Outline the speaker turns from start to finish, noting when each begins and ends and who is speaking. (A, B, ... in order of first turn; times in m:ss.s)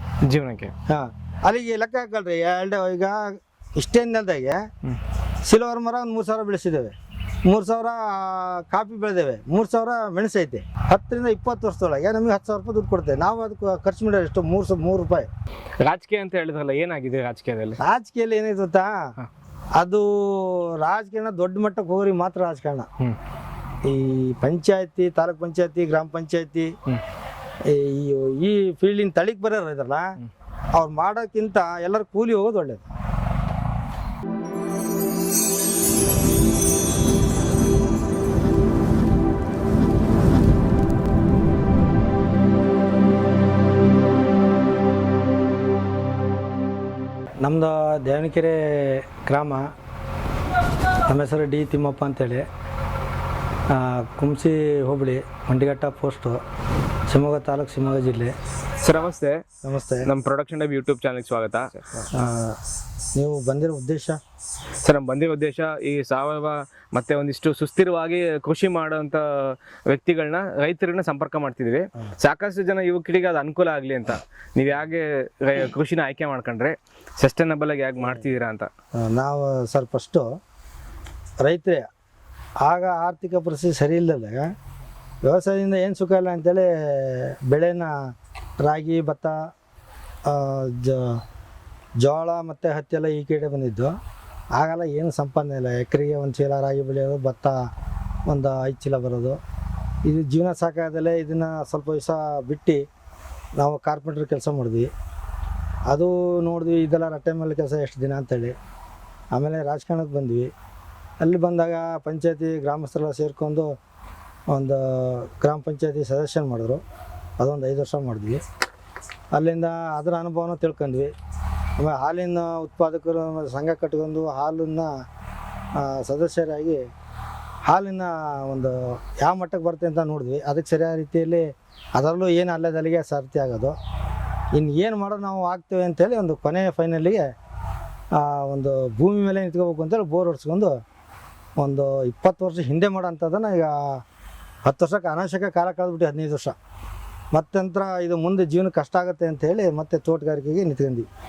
0:00.2-0:00.7 A
0:00.9-0:04.7 B
0:05.4-0:06.9 B
0:07.4-0:15.3 B
0:15.8-0:17.8 A
0:17.8-0:19.1 B
0:19.8-0:22.9 B
0:23.8-0:26.7 B
0:27.6-0:30.2 B
0:30.7-0:32.9 B
0:47.4-0:49.7 B
0:51.0-0:52.4 B
0:53.7-0:56.4 B
0:57.1-0:58.3 B
0:58.8-0:59.4 A
0:59.6-1:00.1 B
1:00.0-1:01.8 A
1:02.0-1:02.6 B
1:03.1-1:04.2 B
1:04.8-1:18.7 A
1:18.9-1:20.3 B
1:21.4-1:21.9 B
1:22.6-1:24.5 B
1:25.2-1:29.5 B
1:30.2-1:31.2 B
1:32.0-1:34.0 B
1:34.6-1:37.7 B
1:38.3-1:39.4 B
1:40.0-1:42.8 B
1:43.6-1:44.9 B
1:45.9-1:48.5 B
1:49.3-1:50.5 B
1:51.2-1:53.8 B
1:54.5-1:56.8 B
1:57.4-1:58.4 B
1:59.3-2:01.1 B
2:01.8-2:04.9 B
2:05.7-2:06.8 B
2:07.6-2:13.8 B
2:14.5-2:17.3 B
2:18.1-2:20.8 B
2:21.6-2:24.0 B
2:24.6-2:26.6 B
2:27.3-2:31.1 B